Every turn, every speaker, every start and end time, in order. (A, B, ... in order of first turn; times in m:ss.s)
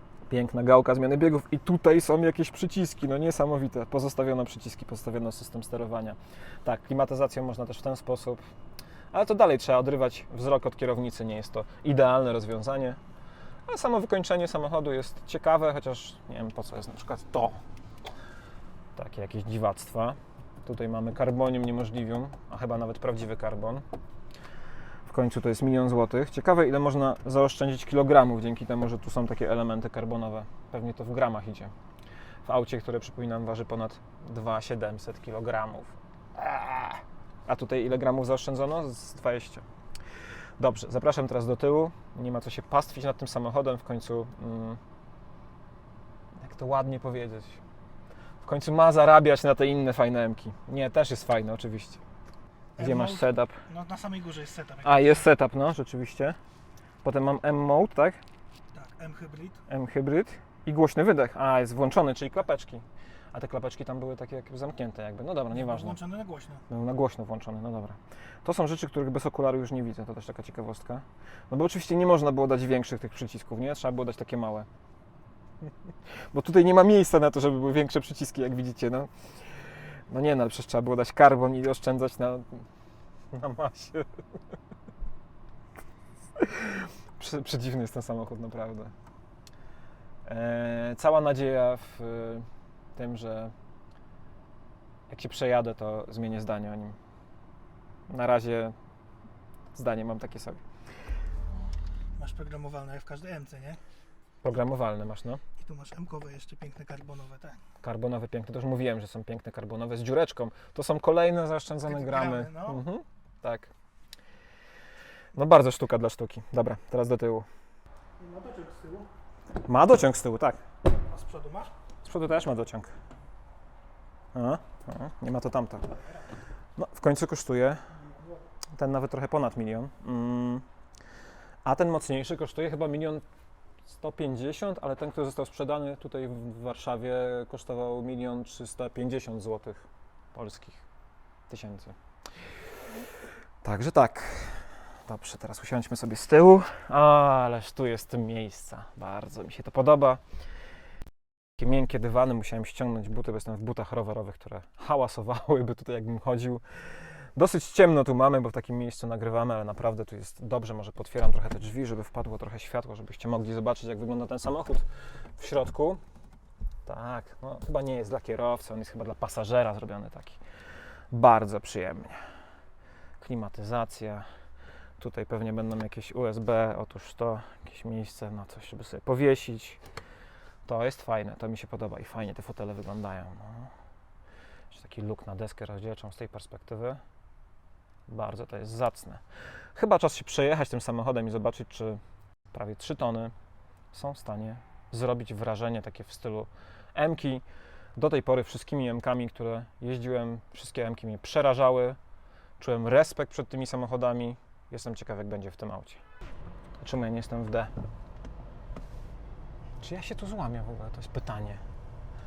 0:00.3-0:08.4 A
0:09.1-0:13.0 A
0:13.7-0:17.6 A
0:19.0-0:23.8 A
0:25.0-0:31.7 A
0:32.4-0:39.6 A
0:40.6-0:44.8 A
0:46.4-0:47.6 A
0:48.4-0:52.0 A
0:52.8-0:55.1 B
0:52.8-0:53.6 A
0:54.8-0:56.4 A
0:57.0-0:58.2 A
0:58.7-0:59.6 B
0:59.7-1:06.0 A
1:05.5-1:06.6 B
1:06.7-1:14.7 A
1:16.2-1:19.1 A
1:20.1-1:22.6 A
1:23.3-1:24.1 A
1:26.4-1:28.9 A
1:30.2-1:33.5 A
1:35.1-1:37.0 A
1:38.1-1:38.7 A
1:39.7-1:40.6 A
1:42.2-1:43.8 B
1:44.4-1:45.4 A
1:45.6-1:47.6 B
1:47.8-1:53.7 A
1:51.9-1:52.8 B
1:55.3-1:57.5 A
1:58.2-1:59.1 B
1:59.6-2:00.6 A
2:01.0-2:01.7 B
2:02.0-2:02.9 A
2:04.3-2:05.9 A
2:06.8-2:07.8 A
2:08.8-2:10.6 A
2:11.6-2:13.2 A
2:13.9-2:20.8 A
2:21.5-2:22.0 A
2:23.6-2:30.2 A
2:31.6-2:36.6 A
2:37.3-2:44.8 A
2:45.4-2:46.0 A
2:46.8-2:50.4 A
2:51.1-2:52.2 A
2:53.2-2:54.2 A
2:55.0-2:59.8 A
3:00.6-3:03.7 A
3:04.7-3:07.0 A
3:08.1-3:09.2 A
3:09.7-3:12.0 A
3:12.5-3:13.3 A
3:13.9-3:17.4 A
3:18.0-3:22.0 A
3:22.6-3:26.0 A
3:26.8-3:27.7 A
3:29.8-3:31.6 A